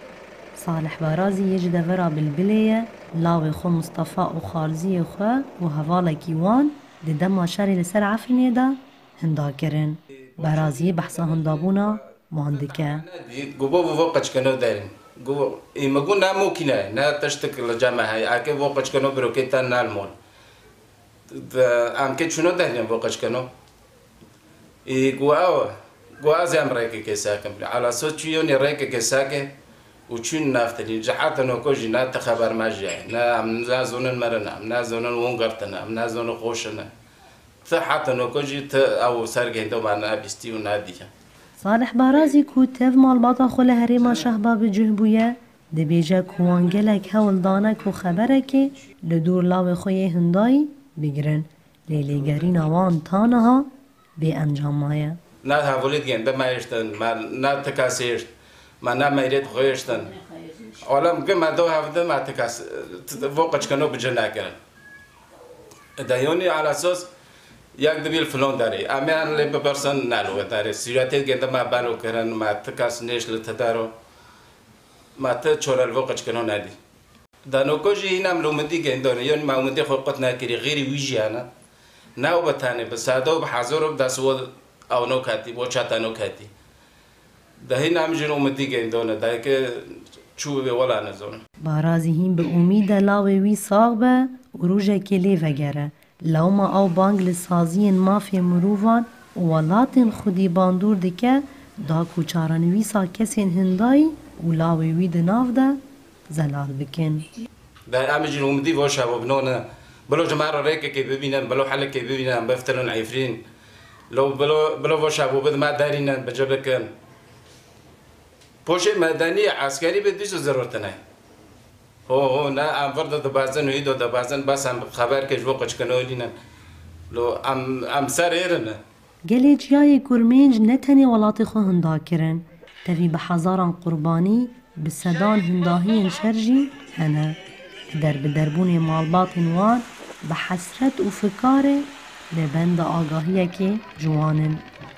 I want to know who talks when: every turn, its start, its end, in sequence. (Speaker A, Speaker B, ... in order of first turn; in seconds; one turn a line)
Speaker A: 0.6-13.1
Speaker B: 10.4-12.0
Speaker B: 12.5-20.1
Speaker B: 21.3-23.5
Speaker B: 24.9-29.5
Speaker B: 30.1-36.9
Speaker B: 37.6-41.1
Speaker A: 41.6-55.2
Speaker B: 55.4-58.3
Speaker B: 58.8-64.6
Speaker B: 66.0-67.1
Speaker B: 67.8-73.9
Speaker B: 75.2-76.8
Speaker B: 77.5-81.5
Speaker B: 82.2-86.5
Speaker B: 87.6-91.4
Speaker A: 91.6-107.3
Speaker B: 107.9-113.4
Speaker B: 114.1-116.9
Speaker B: 118.7-121.0
Speaker B: 122.1-126.3
Speaker B: 127.1-128.8
Speaker A: 129.3-137.4
Speaker A: 137.9-144.7